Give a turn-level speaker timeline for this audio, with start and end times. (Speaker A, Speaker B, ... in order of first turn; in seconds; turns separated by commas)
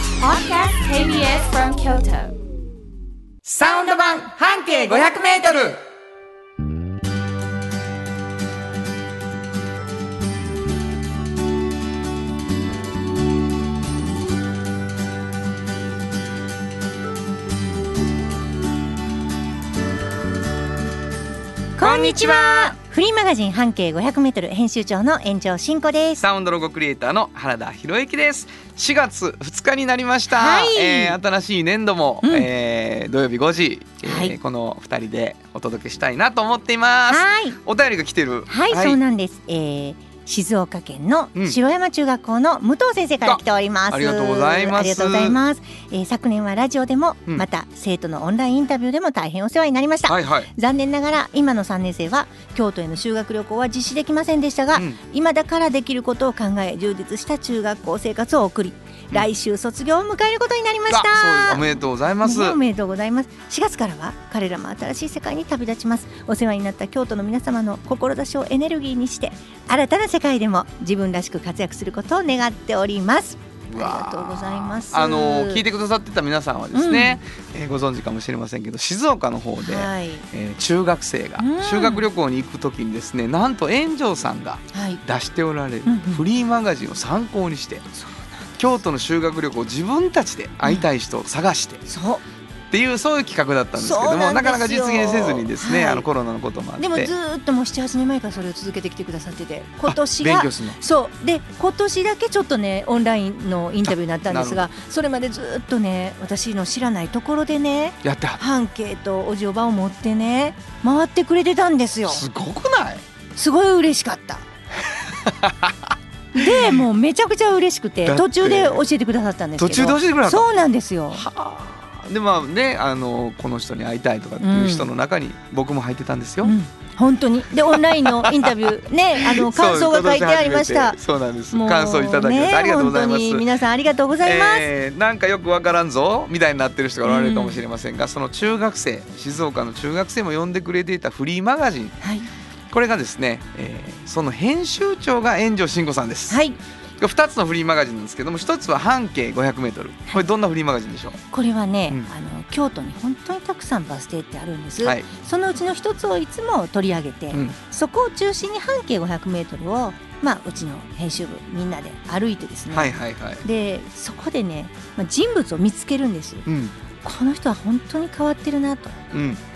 Speaker A: 0.2-2.4, Speaker B: 3.4-5.8, Speaker C: 21.8-26.2, Speaker B: 21.8-22.8, Speaker B: 26.2-39.0, Speaker C: 30.3-31.2, Speaker C: 32.2-32.5, Speaker C: 34.0-34.4, Speaker C: 37.1-37.6, Speaker C: 38.5-75.6, Speaker B: 43.2-45.4, Speaker B: 50.1-50.5, Speaker B: 54.7-55.0, Speaker B: 60.9-62.6, Speaker B: 73.7-87.8, Speaker C: 76.7-77.2, Speaker C: 79.6-80.2, Speaker C: 81.4-82.0, Speaker C: 84.7-85.0, Speaker C: 85.8-86.2, Speaker C: 87.9-88.5, Speaker B: 88.6-91.8, Speaker C: 91.9-92.2, Speaker B: 92.7-97.1, Speaker C: 93.8-96.1, Speaker C: 96.8-112.2, Speaker B: 99.9-100.8, Speaker B: 103.8-104.7, Speaker B: 108.0-108.4, Speaker B: 112.1-113.0, Speaker C: 113.3-114.5, Speaker B: 115.0-116.8, Speaker C: 116.3-121.3, Speaker B: 118.0-118.8, Speaker B: 119.6-120.5, Speaker B: 121.1-126.5, Speaker C: 124.4-124.9, Speaker C: 126.4-131.0, Speaker B: 127.7-128.5, Speaker B: 129.2-133.5, Speaker C: 131.5-134.7, Speaker B: 134.2-142.0, Speaker C: 137.0-137.6, Speaker C: 142.0-142.3, Speaker B: 142.7-146.4, Speaker C: 146.3-146.6, Speaker B: 147.0-151.2, Speaker C: 151.3-166.4, Speaker B: 154.8-155.1, Speaker B: 162.7-163.4, Speaker B: 166.4-166.7, Speaker C: 167.0-169.0, Speaker B: 169.1-169.4